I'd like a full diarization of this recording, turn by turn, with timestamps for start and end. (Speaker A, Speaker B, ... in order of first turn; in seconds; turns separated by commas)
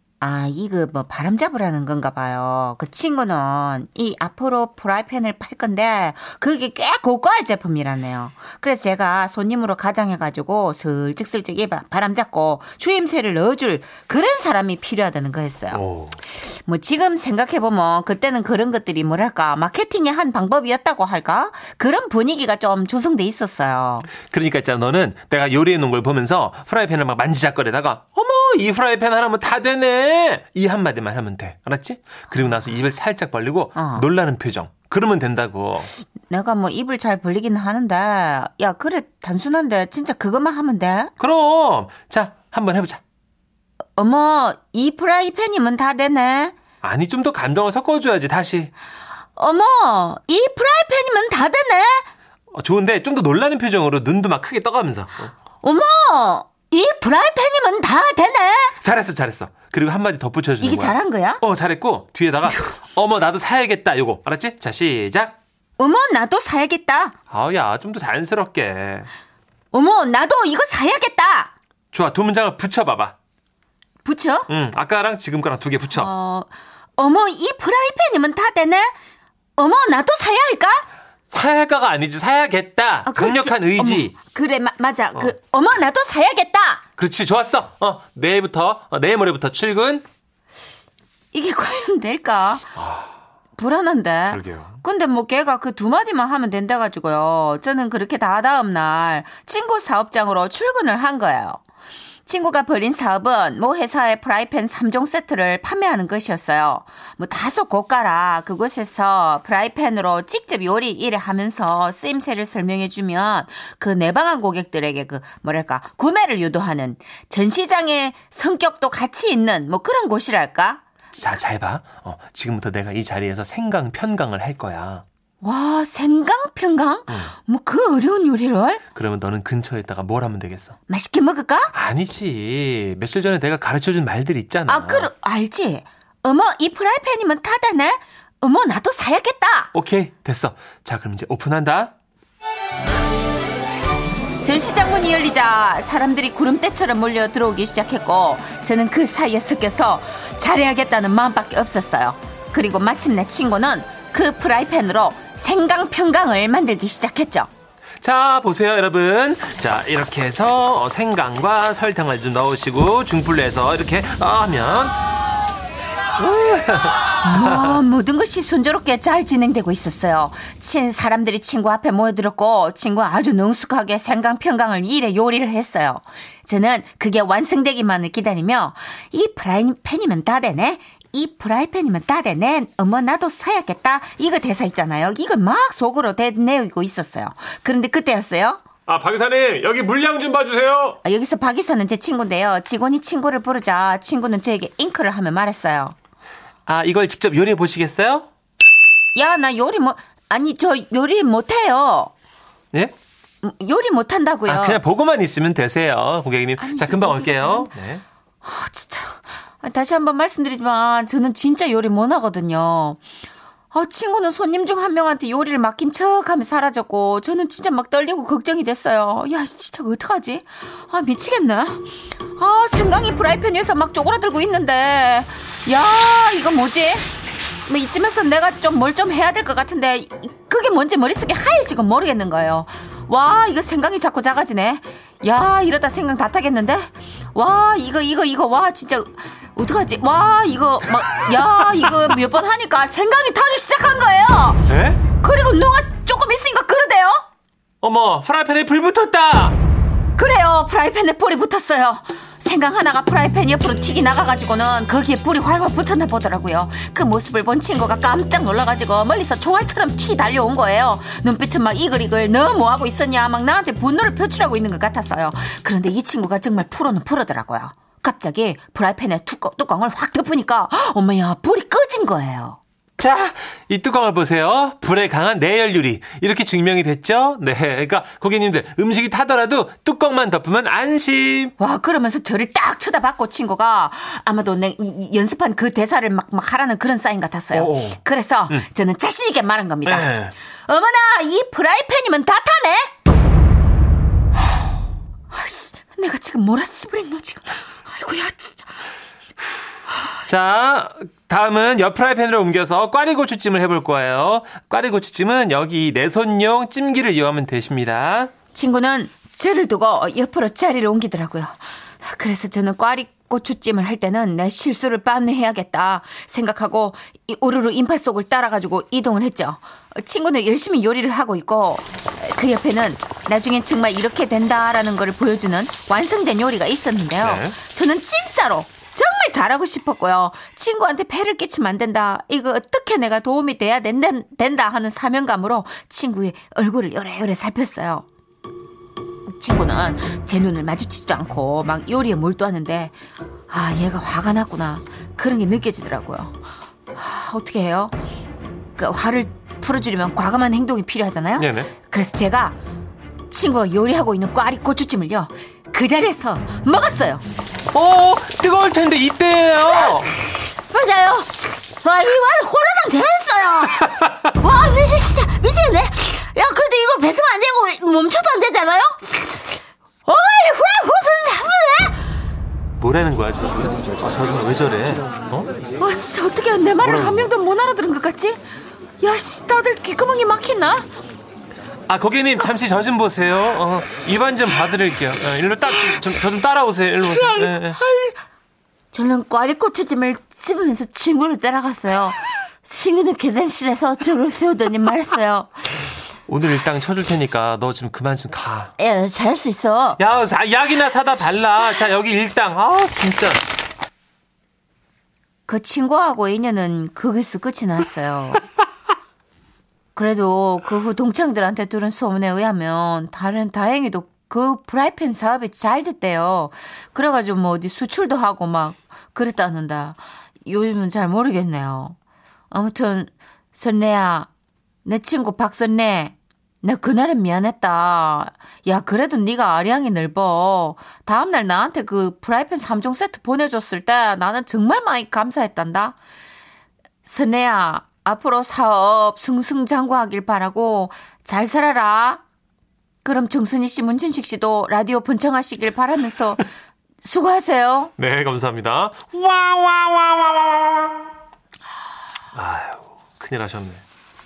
Speaker A: 0.2-15.8, Speaker B: 15.7-16.2, Speaker A: 16.4-24.1, Speaker B: 24.1-35.9, Speaker A: 33.8-34.1, Speaker A: 36.2-41.1, Speaker B: 41.2-43.0, Speaker A: 44.0-46.5, Speaker B: 46.8-48.7, Speaker A: 49.4-52.1, Speaker B: 52.5-55.3, Speaker A: 55.6-58.8, Speaker B: 58.8-65.4, Speaker A: 60.6-61.4, Speaker A: 65.8-67.2, Speaker B: 67.3-69.1, Speaker A: 69.7-71.5, Speaker B: 71.9-73.2, Speaker A: 74.0-74.5, Speaker B: 74.5-76.1, Speaker A: 75.9-78.9, Speaker A: 79.6-80.9, Speaker B: 81.3-84.2, Speaker A: 83.1-86.8, Speaker B: 87.0-90.0, Speaker A: 91.3-92.8, Speaker B: 92.8-93.1, Speaker A: 93.6-101.6, Speaker B: 94.3-94.8, Speaker A: 102.3-120.8, Speaker B: 121.1-125.0, Speaker A: 125.4-128.8, Speaker B: 127.1-127.3, Speaker B: 128.9-130.8, Speaker A: 130.9-131.7, Speaker B: 131.7-135.1, Speaker A: 134.7-139.7, Speaker B: 139.7-141.9, Speaker A: 144.4-157.5, Speaker B: 158.0-165.0, Speaker B: 166.2-167.7, Speaker A: 167.2-188.6, Speaker B: 188.9-191.0, Speaker A: 191.0-195.9, Speaker B: 196.7-198.3, Speaker A: 199.2-202.1, Speaker A: 203.4-204.8, Speaker B: 204.5-208.0, Speaker A: 206.6-207.7, Speaker A: 208.4-213.0, Speaker A: 213.7-227.2, Speaker A: 227.7-244.7, Speaker B: 244.7-245.0, Speaker A: 245.2-247.2, Speaker B: 247.8-249.6, Speaker A: 250.2-272.6, Speaker B: 273.0-281.5, Speaker A: 281.6-292.9, Speaker B: 287.5-288.7, Speaker B: 289.9-290.3, Speaker A: 295.3-298.7, Speaker B: 300.2-308.3, Speaker A: 308.5-338.1, Speaker B: 327.2-327.6, Speaker A: 339.3-342.9, Speaker A: 343.5-346.4, Speaker A: 346.9-348.0, Speaker A: 348.8-352.6, Speaker B: 351.4-351.7, Speaker A: 353.3-357.2, Speaker B: 357.7-360.1, Speaker A: 360.7-372.2, Speaker B: 372.8-375.5, Speaker A: 375.8-378.4, Speaker B: 376.8-377.3, Speaker A: 379.0-380.9, Speaker B: 381.9-387.8, Speaker A: 387.0-388.2, Speaker A: 388.9-395.5, Speaker B: 396.3-398.7, Speaker A: 398.8-400.0, Speaker B: 400.0-403.4, Speaker A: 405.5-408.4, Speaker A: 410.0-422.0, Speaker A: 422.5-424.3, Speaker A: 424.9-436.0, Speaker A: 437.1-442.2, Speaker A: 443.1-446.5, Speaker A: 447.0-447.9, Speaker B: 448.0-451.1, Speaker B: 452.3-453.8